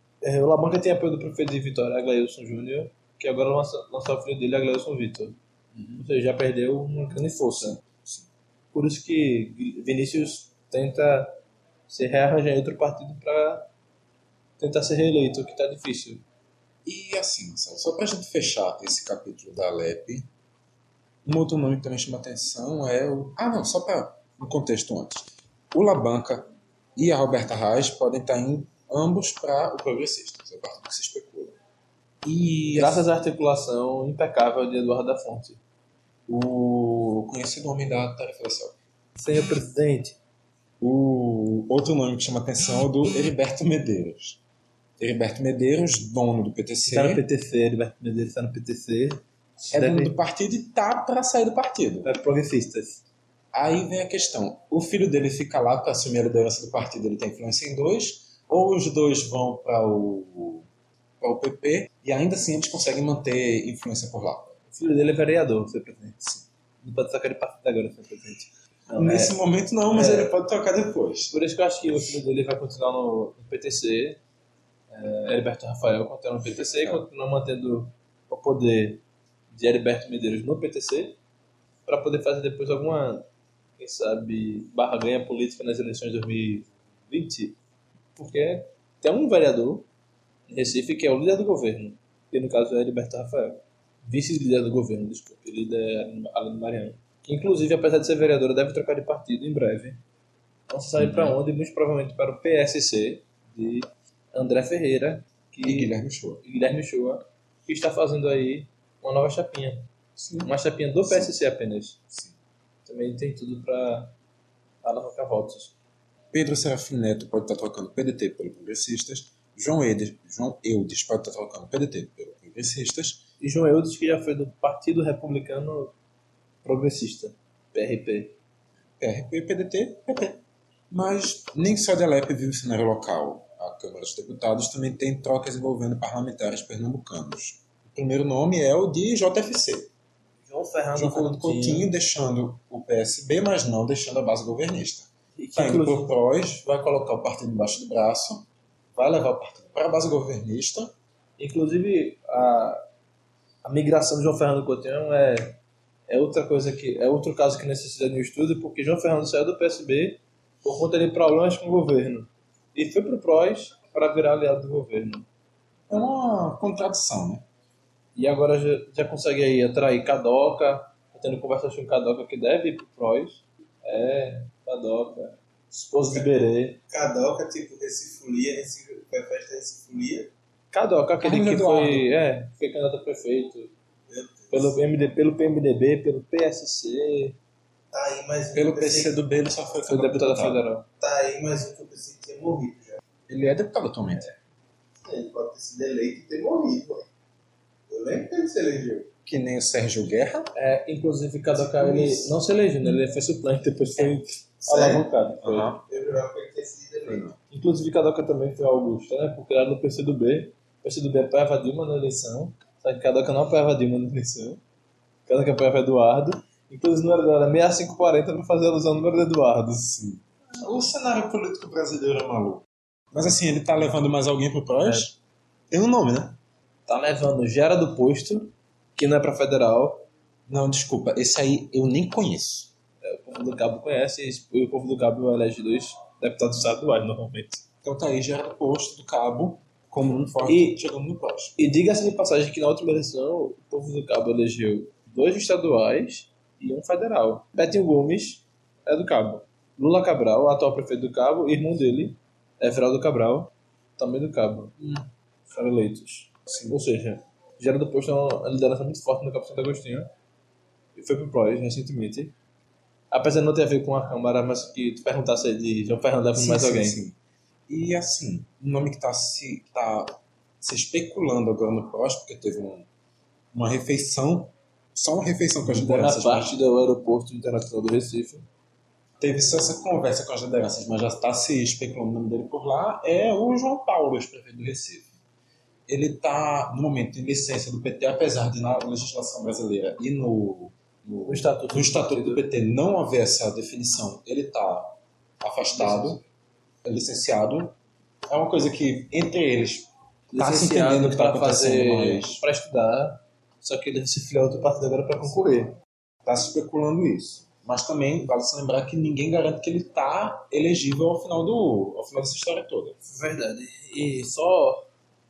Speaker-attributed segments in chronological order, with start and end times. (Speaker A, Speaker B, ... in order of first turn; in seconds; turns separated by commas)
Speaker A: 0.2-5.4, Speaker B: 5.7-6.0, Speaker A: 6.0-7.8, Speaker B: 7.8-8.3, Speaker A: 8.7-13.7, Speaker A: 14.6-16.2, Speaker B: 16.9-20.3, Speaker B: 21.2-31.6, Speaker B: 32.2-33.1, Speaker A: 32.8-35.6, Speaker B: 36.3-38.8, Speaker A: 39.2-40.2, Speaker B: 40.8-44.4, Speaker B: 45.0-47.2, Speaker A: 46.9-50.1, Speaker B: 49.7-52.1, Speaker A: 52.0-53.0, Speaker B: 53.5-60.7, Speaker B: 61.2-64.6, Speaker A: 64.7-66.2, Speaker A: 66.8-69.4, Speaker B: 69.0-71.3, Speaker A: 69.9-70.3, Speaker A: 71.3-74.2, Speaker A: 74.9-81.2, Speaker B: 76.4-77.0, Speaker A: 81.9-83.3, Speaker A: 83.8-87.6, Speaker A: 88.2-89.9, Speaker A: 90.5-100.0, Speaker A: 100.7-105.9, Speaker B: 101.0-101.4, Speaker B: 105.6-106.4, Speaker A: 106.4-109.9, Speaker B: 110.2-110.5, Speaker A: 110.4-112.0, Speaker B: 111.0-111.3, Speaker A: 112.8-114.2, Speaker A: 114.8-115.7, Speaker B: 116.3-123.3, Speaker A: 123.4-126.0, Speaker A: 126.6-128.4, Speaker B: 129.0-139.9, Speaker A: 140.4-141.9, Speaker B: 141.0-150.9, Speaker A: 145.4-146.2, Speaker A: 151.4-152.8, Speaker A: 153.6-165.3, Speaker B: 165.9-167.4, Speaker A: 168.2-176.8, Speaker C: 176.9-180.3, Speaker A: 180.7-183.7, Speaker B: 181.2-182.1, Speaker C: 184.1-184.8, Speaker A: 184.5-187.4, Speaker C: 187.9-189.2, Speaker B: 188.5-190.6, Speaker A: 189.9-190.9, Speaker C: 191.0-192.9, Speaker B: 193.3-194.3, Speaker C: 195.0-197.1, Speaker C: 197.9-199.1, Speaker B: 199.3-200.5, Speaker A: 200.6-205.7, Speaker B: 201.6-202.3, Speaker C: 204.7-205.1, Speaker B: 205.4-205.8, Speaker C: 205.8-207.3, Speaker B: 207.1-207.4, Speaker A: 207.5-214.6, Speaker A: 215.3-219.8, Speaker B: 219.8-225.2, Speaker A: 224.8-225.1, Speaker B: 225.7-226.4, Speaker A: 226.9-230.1, Speaker B: 230.5-232.7, Speaker A: 233.0-237.6, Speaker B: 237.8-241.6, Speaker A: 240.4-240.8, Speaker A: 241.6-254.9, Speaker A: 255.5-260.1, Speaker A: 260.9-262.3, Speaker A: 263.1-267.0, Speaker B: 266.3-272.9, Speaker B: 273.5-276.6, Speaker A: 275.6-278.5, Speaker B: 279.2-285.1, Speaker B: 285.9-296.2, Speaker A: 291.3-292.4, Speaker A: 295.7-296.2, Speaker B: 296.8-297.8, Speaker B: 298.3-302.4, Speaker A: 300.3-305.8, Speaker B: 306.3-313.0, Speaker A: 313.0-314.9